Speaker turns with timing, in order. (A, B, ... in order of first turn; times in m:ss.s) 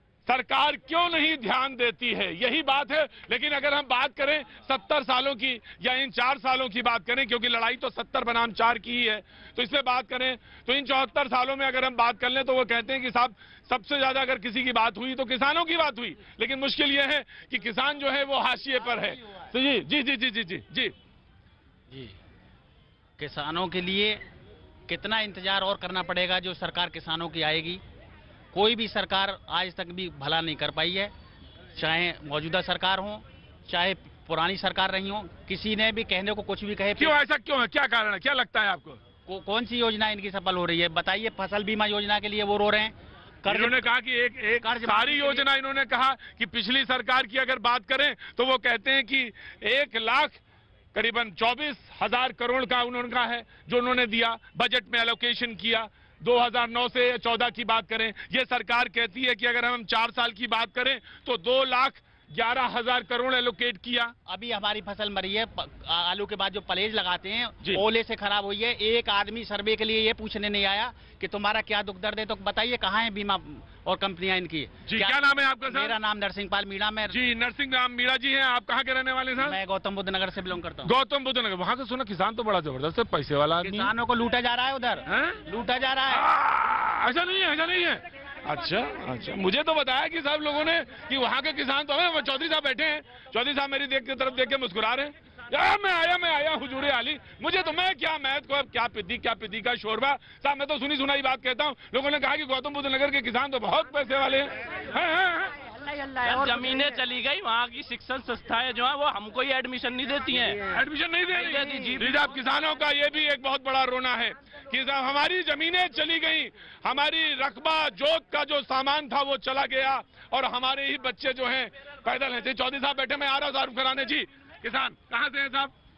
0:00.2-0:20.9 A
0:23.2-0:24.2 B
0:24.9-0:27.8 B
0:28.5-0:31.1 B
0:31.7-0:37.2 B
0:37.0-0:39.0 A
0:39.3-0:43.9 B
0:43.5-0:50.4 A
0:44.6-0:45.4 B
0:50.9-1:04.1 A
1:04.3-1:17.2 B
1:14.9-1:16.0 A
1:17.1-1:19.6 A
1:19.4-1:20.9 B
1:20.8-1:23.9 A
1:23.6-1:26.3 B
1:25.1-1:25.4 A
1:26.1-1:45.5 A
1:46.2-1:50.6 C
1:50.7-2:05.7 A
1:51.4-1:52.0 C